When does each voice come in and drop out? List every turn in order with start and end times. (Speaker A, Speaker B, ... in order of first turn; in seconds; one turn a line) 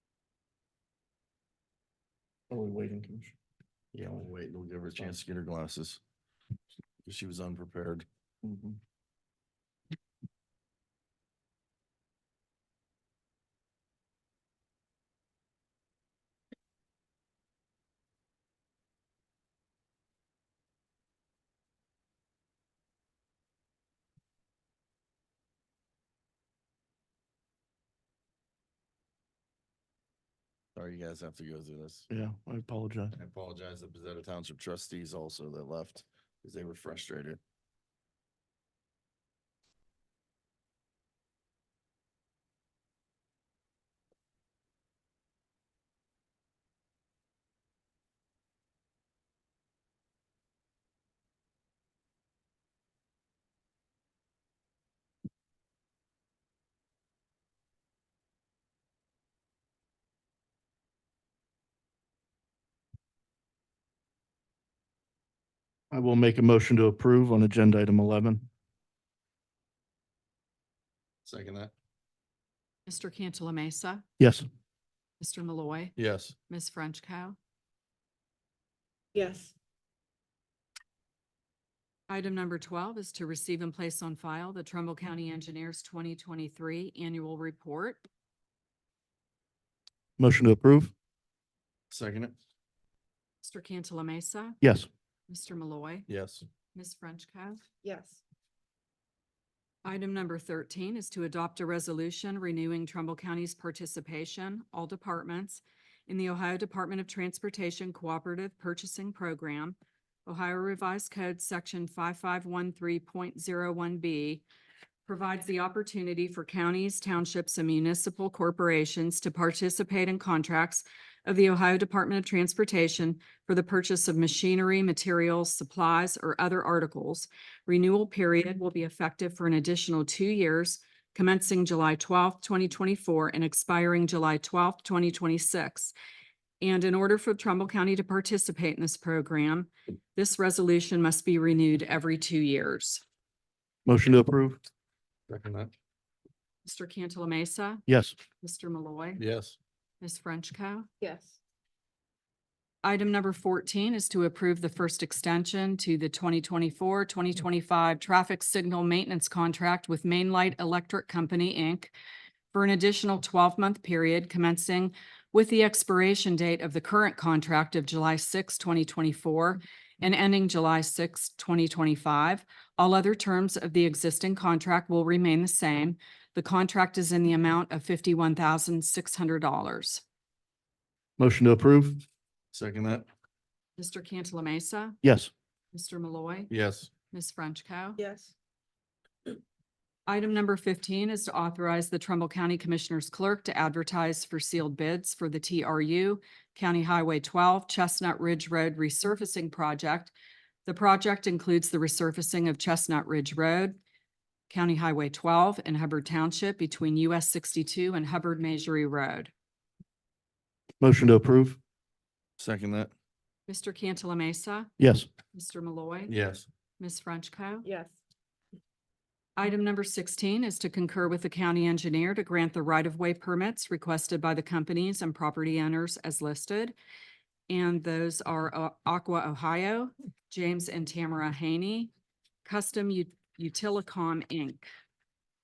Speaker A: 2.5-3.3
Speaker B: 3.9-6.0
Speaker B: 7.0-8.0
Speaker A: 8.4-8.8
Speaker B: 30.8-32.0
Speaker A: 32.1-33.1
Speaker B: 33.1-37.4
Speaker A: 65.9-68.5
Speaker B: 71.2-71.7
Speaker C: 72.9-74.0
Speaker A: 74.2-74.4
Speaker C: 75.2-75.9
Speaker B: 76.0-76.3
Speaker C: 76.5-77.4
Speaker D: 79.1-79.5
Speaker C: 82.1-88.0
Speaker A: 90.2-90.9
Speaker B: 91.9-92.3
Speaker C: 93.4-94.6
Speaker A: 94.6-94.9
Speaker C: 95.3-96.1
Speaker B: 96.1-96.4
Speaker C: 96.7-97.6
Speaker D: 97.8-98.2
Speaker C: 99.8-114.4
Speaker C: 115.1-135.9
Speaker C: 136.6-143.0
Speaker A: 143.8-144.6
Speaker B: 145.3-145.7
Speaker C: 146.6-147.8
Speaker A: 147.9-148.2
Speaker C: 148.4-149.2
Speaker B: 149.2-149.6
Speaker C: 150.0-150.9
Speaker D: 151.0-151.4
Speaker C: 152.8-161.9
Speaker C: 162.5-180.0
Speaker A: 181.2-182.0
Speaker B: 182.5-183.1
Speaker C: 183.8-185.0
Speaker A: 185.0-185.3
Speaker C: 185.7-186.5
Speaker B: 186.5-186.9
Speaker C: 187.1-188.0
Speaker D: 188.0-188.3
Speaker C: 190.1-200.1
Speaker C: 200.6-203.8
Speaker C: 204.5-209.3
Speaker A: 210.8-211.6
Speaker B: 212.4-212.9
Speaker C: 213.5-214.7
Speaker A: 214.8-215.1
Speaker C: 215.3-216.1
Speaker B: 216.1-216.4
Speaker C: 216.8-217.7
Speaker D: 217.6-218.0
Speaker C: 219.3-226.7
Speaker C: 227.5-231.9
Speaker C: 232.4-234.7